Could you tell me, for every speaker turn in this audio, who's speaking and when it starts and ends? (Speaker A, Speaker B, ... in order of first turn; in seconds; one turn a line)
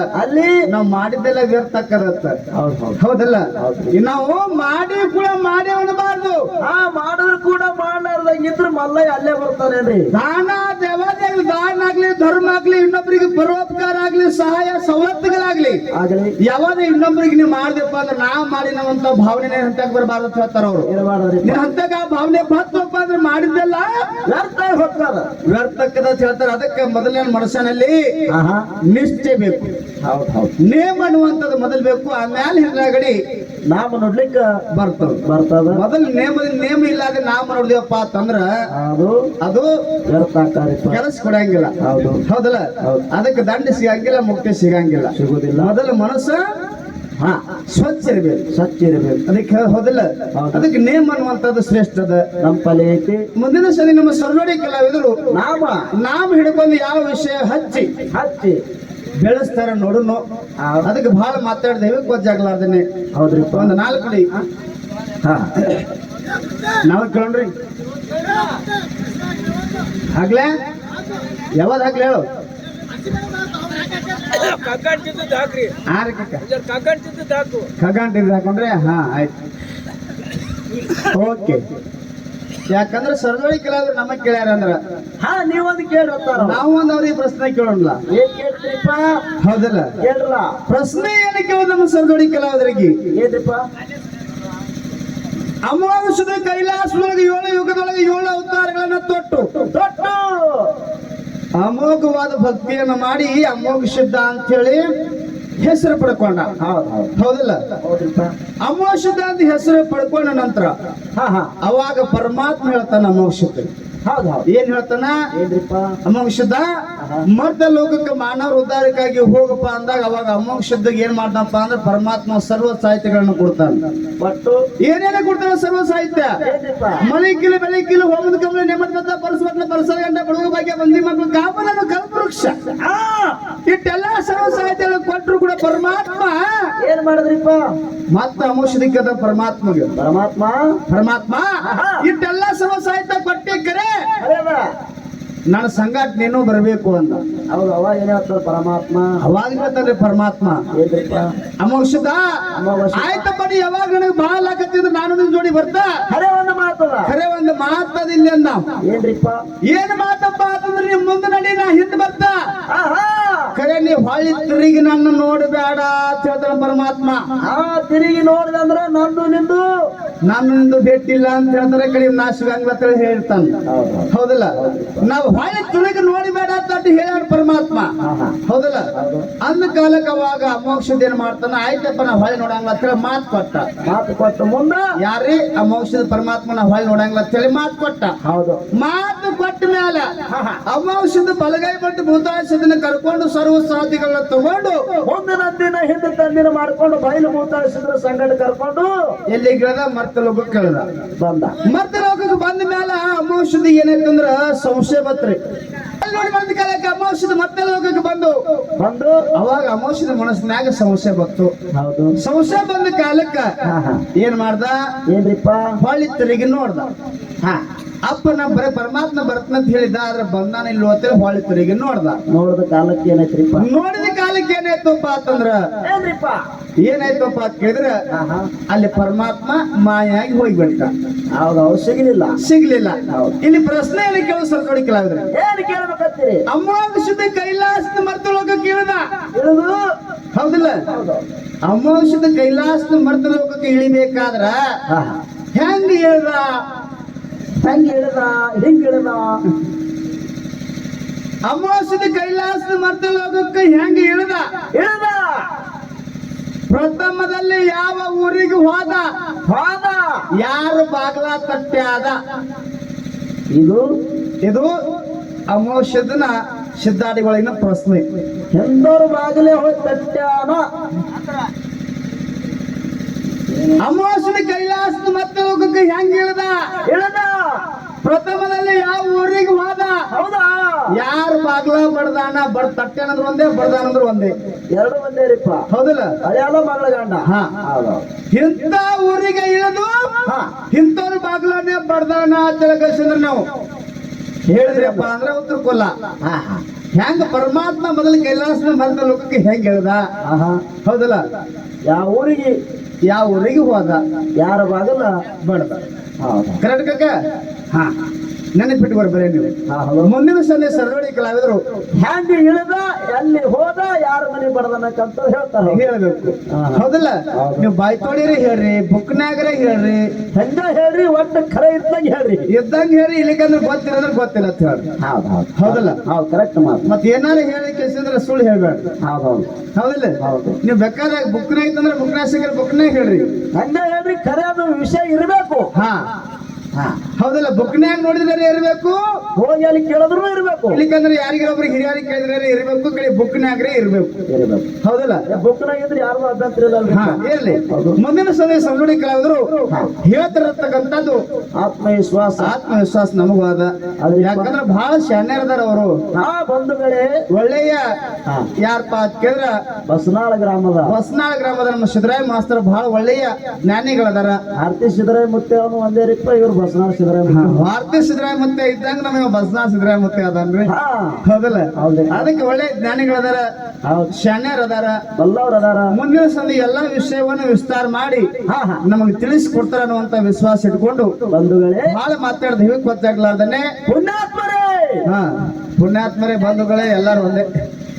Speaker A: 0.2-0.6
Speaker B: 0.7-2.4
Speaker A: 2.5-3.0
Speaker B: 3.0-6.4
Speaker A: 3.6-3.9
Speaker A: 6.7-10.1
Speaker B: 10.1-15.8
Speaker A: 15.9-16.3
Speaker B: 16.4-20.9
Speaker A: 20.9-21.6
Speaker B: 21.4-24.1
Speaker A: 24.3-25.3
Speaker B: 25.5-28.0
Speaker A: 28.3-28.7
Speaker B: 28.9-29.7
Speaker A: 30.0-30.5
Speaker B: 30.6-33.2
Speaker A: 33.7-34.5
Speaker B: 34.7-35.2
Speaker A: 35.2-35.8
Speaker B: 35.7-38.5
Speaker A: 38.7-39.3
Speaker B: 39.4-39.7
Speaker A: 40.1-41.0
Speaker B: 40.9-41.8
Speaker A: 41.8-42.2
Speaker B: 42.3-46.4
Speaker A: 45.1-45.7
Speaker B: 47.7-48.4
Speaker A: 48.5-49.2
Speaker B: 49.3-52.2
Speaker A: 50.4-50.7
Speaker A: 52.4-53.2
Speaker B: 53.4-55.1
Speaker A: 55.3-55.9
Speaker B: 56.0-57.9
Speaker A: 58.1-58.6
Speaker B: 59.2-60.2
Speaker A: 60.6-60.9
Speaker B: 60.8-62.8
Speaker A: 63.2-63.8
Speaker B: 63.5-64.3
Speaker A: 65.2-65.7
Speaker B: 66.9-67.5
Speaker B: 70.1-70.5
Speaker B: 71.6-72.2
Speaker C: 74.1-75.8
Speaker B: 75.9-76.5
Speaker C: 76.4-77.7
Speaker B: 77.8-79.3
Speaker B: 81.1-81.6
Speaker B: 82.7-84.8
Speaker A: 85.2-86.6
Speaker B: 86.4-88.0
Speaker A: 88.1-89.1
Speaker B: 89.4-89.9
Speaker A: 90.0-90.5
Speaker B: 90.7-92.9
Speaker A: 93.2-93.6
Speaker B: 95.6-99.5
Speaker A: 99.7-100.7
Speaker B: 101.6-104.8
Speaker B: 105.6-106.5
Speaker A: 106.6-107.1
Speaker B: 107.2-107.6
Speaker A: 107.8-108.3
Speaker B: 108.6-110.7
Speaker A: 111.2-111.5
Speaker B: 111.6-113.7
Speaker A: 114.1-114.5
Speaker B: 114.5-115.2
Speaker A: 115.3-116.0
Speaker B: 116.0-116.7
Speaker A: 117.0-117.3
Speaker B: 117.3-123.8
Speaker A: 124.2-124.6
Speaker B: 124.8-126.4
Speaker A: 126.4-127.0
Speaker B: 127.0-132.5
Speaker A: 132.8-133.4
Speaker B: 133.7-136.4
Speaker A: 136.8-137.6
Speaker B: 138.1-139.9
Speaker A: 139.9-140.8
Speaker B: 140.9-141.5
Speaker A: 141.6-142.0
Speaker B: 142.0-143.9
Speaker A: 144.2-144.7
Speaker B: 145.5-147.2
Speaker A: 147.5-149.1
Speaker B: 149.2-150.6
Speaker A: 150.7-151.3
Speaker B: 151.6-152.2
Speaker A: 152.6-153.3
Speaker B: 152.9-155.9
Speaker A: 156.1-157.1
Speaker B: 157.1-158.6
Speaker A: 158.8-159.4
Speaker B: 159.7-162.4
Speaker A: 162.7-163.5
Speaker B: 163.6-167.2
Speaker A: 167.4-169.7
Speaker B: 170.2-173.6
Speaker A: 173.7-175.1
Speaker B: 174.1-177.9
Speaker A: 178.0-178.4
Speaker B: 178.5-178.9
Speaker A: 178.9-179.3
Speaker B: 179.4-183.7
Speaker A: 183.8-184.8
Speaker B: 185.0-188.1
Speaker A: 188.2-188.6
Speaker B: 188.8-190.1
Speaker A: 190.3-190.6
Speaker B: 190.7-194.8
Speaker A: 195.1-198.9
Speaker B: 199.3-200.9
Speaker A: 201.2-201.6
Speaker B: 201.6-205.4
Speaker B: 206.0-208.4
Speaker A: 208.8-209.3
Speaker B: 209.3-211.5
Speaker A: 211.8-212.2
Speaker B: 212.2-213.5
Speaker A: 213.7-214.0
Speaker B: 214.2-214.8
Speaker A: 215.1-215.7
Speaker B: 215.8-216.9
Speaker B: 218.1-222.2
Speaker A: 222.3-223.7
Speaker B: 223.6-225.6
Speaker A: 225.8-226.4
Speaker B: 226.8-227.9
Speaker A: 228.1-228.5
Speaker B: 228.7-230.9
Speaker A: 231.4-232.4
Speaker B: 232.4-235.3
Speaker A: 233.1-233.4
Speaker A: 235.3-236.4
Speaker B: 236.5-239.0
Speaker A: 239.4-239.8
Speaker B: 240.3-240.8
Speaker A: 240.9-241.2
Speaker B: 241.7-244.6
Speaker A: 244.9-245.2
Speaker B: 245.6-246.5
Speaker A: 247.6-249.4
Speaker B: 251.4-254.4
Speaker A: 254.8-255.4
Speaker B: 256.7-259.1
Speaker A: 259.5-260.2
Speaker B: 260.4-262.2
Speaker A: 263.5-263.8
Speaker B: 264.4-264.7
Speaker B: 265.5-268.0
Speaker A: 268.5-270.6
Speaker B: 273.8-276.5
Speaker A: 276.9-277.6
Speaker B: 278.0-280.0
Speaker A: 280.1-280.9
Speaker B: 280.9-284.3
Speaker A: 284.7-285.6
Speaker B: 285.7-286.1
Speaker A: 286.2-288.1
Speaker B: 287.2-287.5
Speaker B: 288.3-293.4
Speaker A: 290.3-290.5
Speaker A: 294.5-295.1
Speaker B: 294.5-295.9
Speaker A: 296.2-296.6
Speaker B: 296.9-300.0
Speaker A: 300.2-300.6
Speaker B: 300.8-301.2
Speaker A: 301.9-302.6
Speaker B: 303.1-304.0
Speaker A: 304.4-305.1
Speaker B: 305.4-305.8
Speaker A: 306.2-306.6
Speaker B: 306.6-307.1
Speaker B: 308.6-309.5
Speaker A: 309.7-310.1
Speaker B: 310.0-311.6
Speaker A: 312.0-315.8
Speaker B: 315.7-320.0
Speaker A: 316.5-317.7
Speaker A: 320.3-322.5
Speaker B: 322.5-324.8
Speaker A: 325.0-326.9
Speaker B: 325.6-326.0
Speaker B: 326.9-328.9
Speaker A: 329.0-329.5
Speaker B: 329.8-333.3
Speaker A: 330.2-330.6
Speaker A: 333.6-335.7
Speaker B: 335.7-336.0
Speaker B: 337.2-339.0
Speaker A: 339.4-340.8
Speaker B: 340.7-344.1
Speaker A: 344.3-344.7
Speaker B: 344.8-345.2
Speaker A: 345.3-348.0
Speaker B: 346.9-349.5
Speaker B: 350.0-351.2
Speaker A: 351.6-352.6
Speaker B: 352.4-355.9
Speaker A: 354.0-354.5
Speaker A: 356.1-357.2
Speaker B: 357.3-357.8
Speaker B: 358.6-359.6
Speaker A: 359.9-360.9
Speaker B: 360.9-364.4
Speaker A: 364.6-367.6
Speaker B: 367.3-370.7
Speaker A: 370.7-371.2
Speaker B: 371.2-373.4
Speaker A: 371.8-372.3
Speaker B: 374.1-375.0
Speaker A: 375.2-375.9
Speaker B: 375.9-378.3
Speaker A: 378.5-378.8
Speaker B: 378.8-381.1
Speaker A: 381.3-381.9
Speaker B: 381.9-383.7
Speaker A: 383.9-385.0
Speaker B: 385.8-387.4